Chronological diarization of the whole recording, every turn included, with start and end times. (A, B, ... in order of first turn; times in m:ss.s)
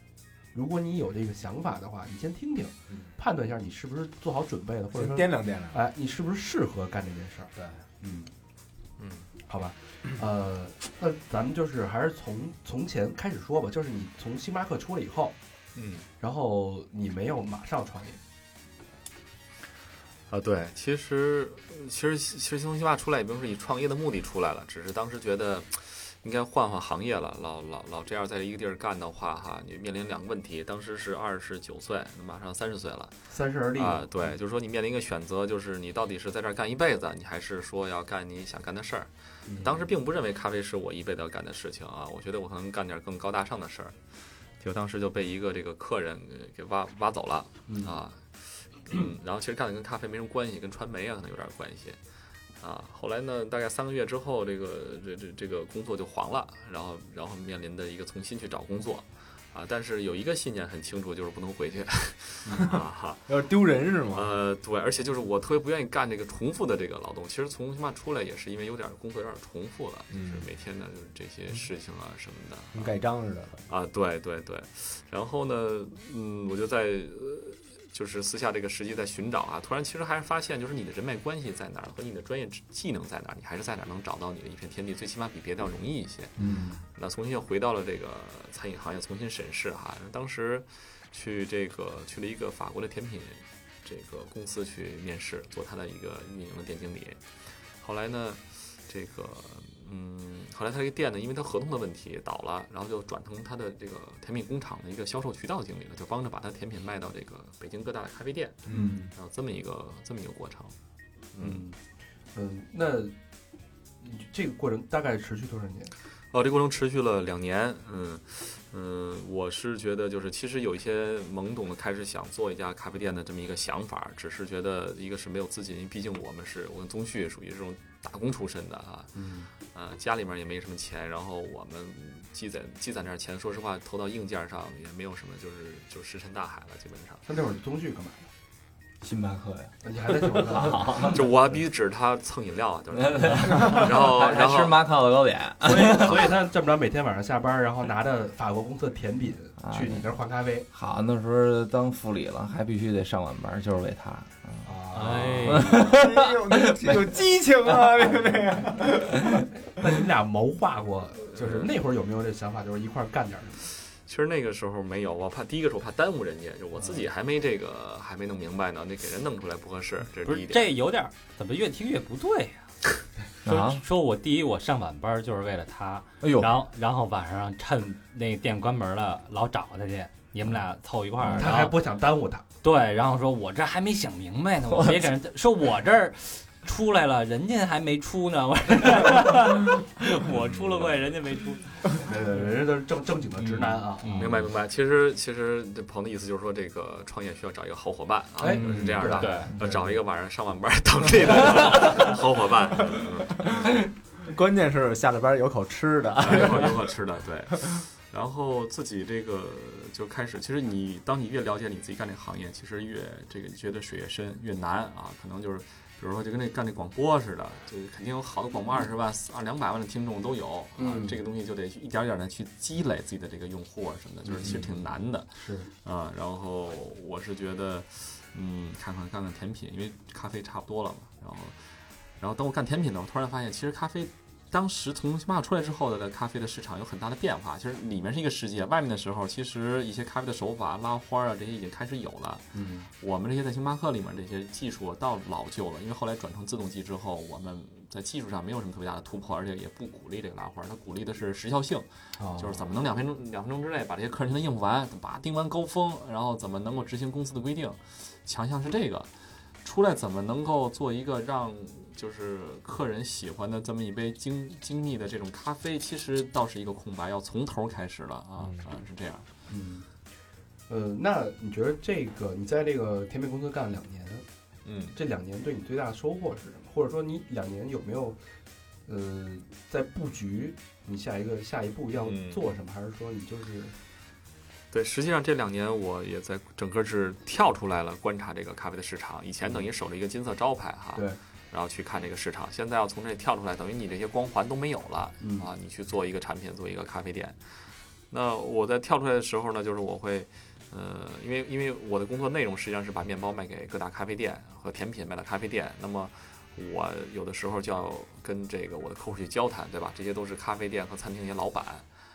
0:00.5-0:08.3 A
0:04.9-0:05.8 B
0:09.0-0:09.3 C
0:09.5-0:15.4 A
0:15.8-0:16.1 C
0:16.2-0:18.2 A
0:20.3-0:33.2 C
0:33.3-0:34.4 A
0:33.8-0:44.0 C
0:39.5-0:39.9 A
0:44.6-0:52.0 C
0:47.7-0:48.0 A
0:52.6-1:03.3 C
1:02.6-1:04.3 B
1:04.1-1:13.0 C
1:10.1-1:10.5 B
1:12.7-1:13.7 B
1:13.7-1:26.4 C
1:26.4-1:26.8 A
1:27.0-1:37.2 C
1:37.8-1:50.8 C
1:48.7-1:49.1 B
1:48.7-1:49.0 A
1:51.3-1:51.6 C
1:51.4-1:51.8 A
1:52.3-1:53.2 A
1:54.0-1:55.9 A
1:56.3-2:09.1 C
2:09.2-2:09.5 A
2:09.7-2:17.2 C
2:17.2-2:18.3 A
2:19.0-2:19.7 D
2:19.8-2:21.3 A
2:20.4-2:21.2 D
2:21.0-2:24.8 C
2:23.0-2:26.3 D
2:25.6-2:30.7 A
2:29.6-2:30.1 D
2:30.7-2:36.9 D
2:34.6-2:36.0 A
2:34.9-2:35.9 E
2:35.9-2:39.2 B
2:39.8-2:43.6 A
2:41.3-2:41.7 C
2:44.0-2:50.7 C
2:50.2-2:52.8 E
2:53.4-2:53.8 D
2:53.4-3:01.8 E
2:56.2-2:56.6 D
3:01.3-3:02.4 A
3:02.6-3:12.1 E
3:12.0-3:14.3 A
3:13.4-3:14.5 E
3:14.2-3:23.6 C
3:18.4-3:19.9 A
3:18.5-3:19.6 E
3:24.2-3:26.9 B
3:26.2-3:45.3 C
3:40.8-3:41.2 A
3:44.2-3:45.7 A
3:45.8-3:51.6 C
3:52.2-4:02.5 C
4:02.5-4:02.9 A
4:03.0-4:19.1 C
4:12.2-4:12.7 A
4:19.6-4:29.3 C
4:28.4-4:28.6 B
4:29.5-4:29.9 A
4:30.7-4:34.2 A
4:34.6-4:35.0 C
4:34.9-4:38.2 A
4:38.9-4:43.8 A
4:42.0-4:42.4 C
4:44.7-4:57.4 C
4:55.2-4:55.5 A
4:58.1-5:11.9 C